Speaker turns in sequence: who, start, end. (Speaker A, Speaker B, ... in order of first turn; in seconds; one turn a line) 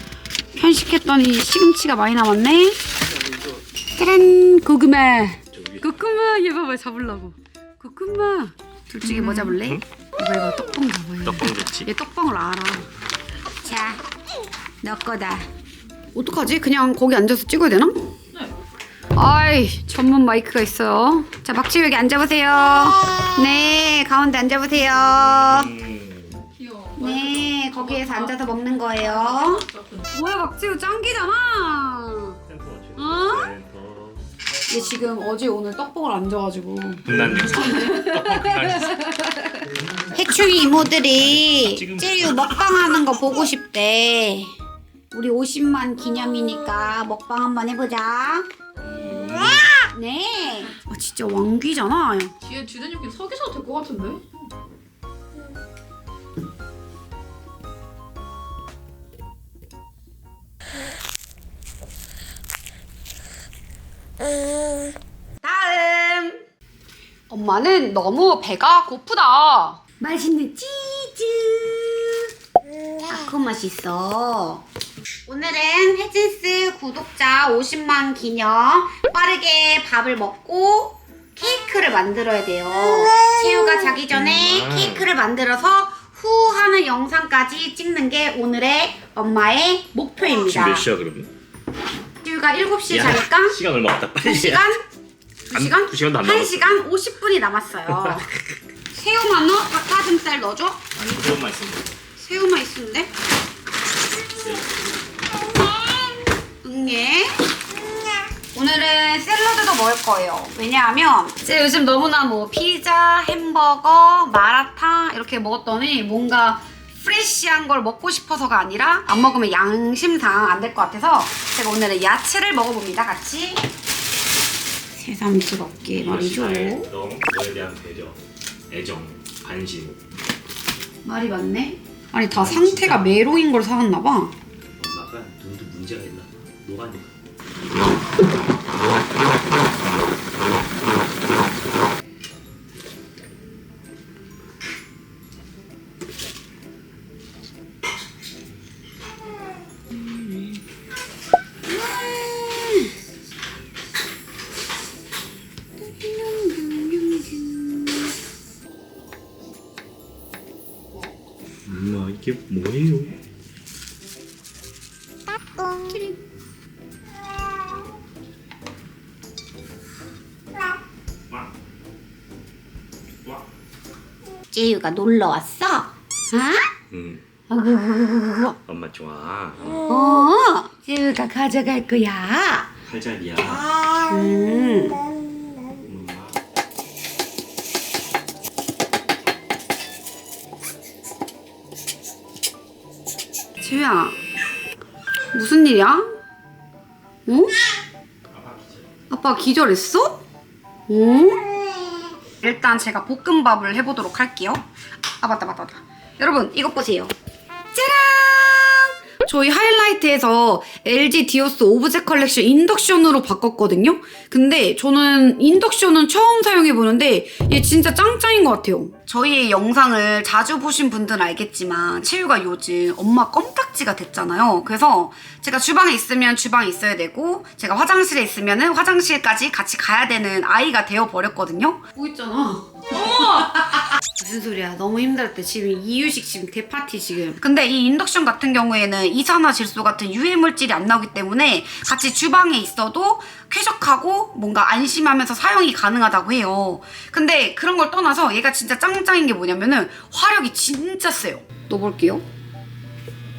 Speaker A: 0.5-2.8
Speaker B: 3.2-3.6
Speaker A: 4.0-12.8
Speaker B: 5.5-5.9
Speaker B: 9.0-9.8
Speaker B: 11.2-11.9
Speaker A: 13.6-14.0
Speaker A: 14.8-15.5
Speaker A: 16.1-18.1
Speaker A: 19.1-25.7
Speaker B: 24.9-26.5
Speaker C: 26.6-30.1
Speaker A: 27.0-32.4
Speaker B: 32.5-34.2
Speaker A: 33.0-33.5
Speaker A: 34.7-44.5
Speaker B: 37.0-39.1
Speaker B: 39.6-42.9
Speaker A: 45.1-52.3
Speaker B: 49.1-49.6
Speaker C: 52.4-54.4
Speaker A: 65.4-66.4
Speaker A: 67.3-72.3
Speaker A: 73.1-74.7
Speaker A: 75.3-90.9
Speaker B: 84.1-85.1
Speaker B: 90.2-91.3
Speaker A: 92.2-93.6
Speaker B: 92.9-94.7
Speaker A: 94.2-94.8
Speaker A: 95.5-98.3
Speaker B: 95.5-96.8
Speaker B: 97.9-98.2
Speaker A: 98.9-100.8
Speaker B: 100.9-102.0
Speaker A: 102.2-103.1
Speaker B: 104.3-105.1
Speaker A: 105.5-107.4
Speaker A: 108.5-123.6
Speaker A: 124.9-126.9
Speaker B: 125.9-130.0
Speaker A: 131.0-134.3
Speaker B: 132.3-133.2
Speaker B: 134.7-137.2
Speaker B: 138.7-141.0
Speaker A: 149.9-150.6
Speaker A: 151.6-152.9
Speaker A: 155.8-158.0
Speaker B: 161.6-163.2
Speaker A: 165.9-166.1
Speaker A: 174.5-176.7
Speaker B: 176.9-177.2
Speaker A: 177.5-178.6
Speaker B: 178.7-179.8
Speaker A: 179.9-182.7
Speaker B: 182.8-183.7
Speaker A: 184.1-185.0
Speaker B: 185.8-186.4
Speaker A: 193.6-194.2
Speaker A: 195.3-196.1
Speaker A: 197.2-197.5
Speaker B: 198.3-198.9
Speaker A: 199.1-200.2
Speaker A: 200.9-201.5
Speaker A: 202.4-204.7
Speaker A: 205.2-207.1
Speaker A: 207.7-252.2
Speaker C: 233.0-233.5